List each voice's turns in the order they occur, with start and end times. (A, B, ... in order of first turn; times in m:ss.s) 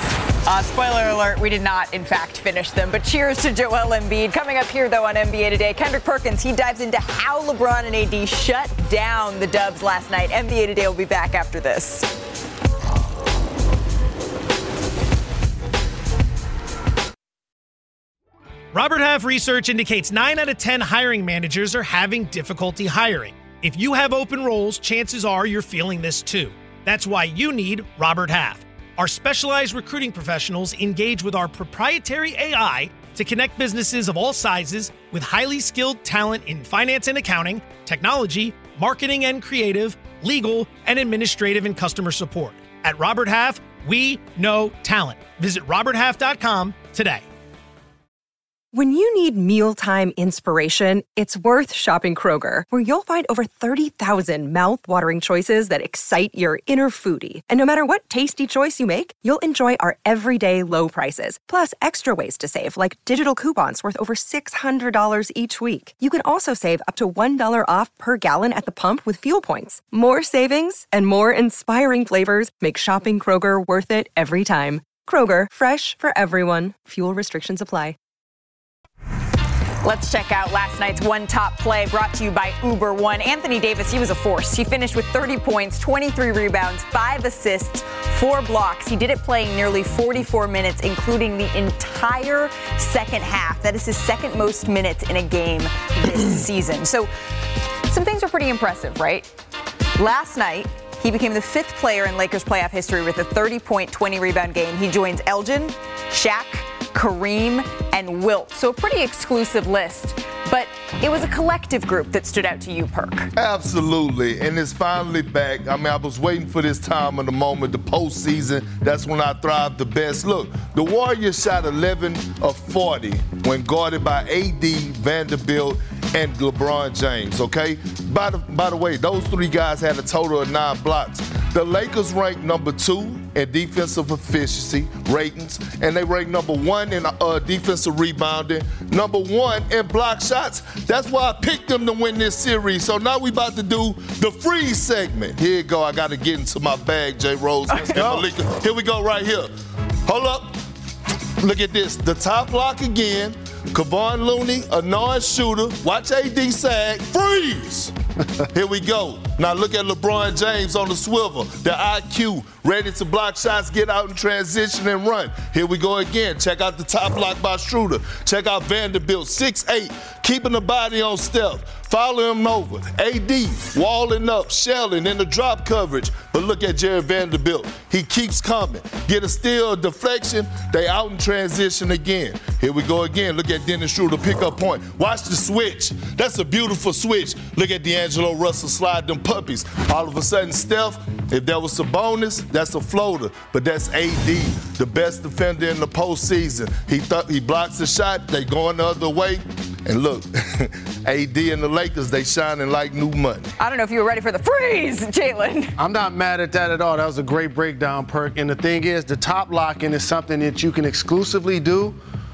0:00.4-0:12.1 A
0:18.7-0:47.2 B
0:48.7-1:18.0 C
1:19.8-1:37.1 A
1:37.8-1:39.3 A
1:40.0-1:53.3 A
1:53.4-2:29.5 D
2:27.8-2:28.3 E
2:30.0-2:30.6 D
2:31.4-2:37.9 D
2:38.5-3:23.5 D
3:23.6-3:25.7 A
3:25.8-3:32.0 E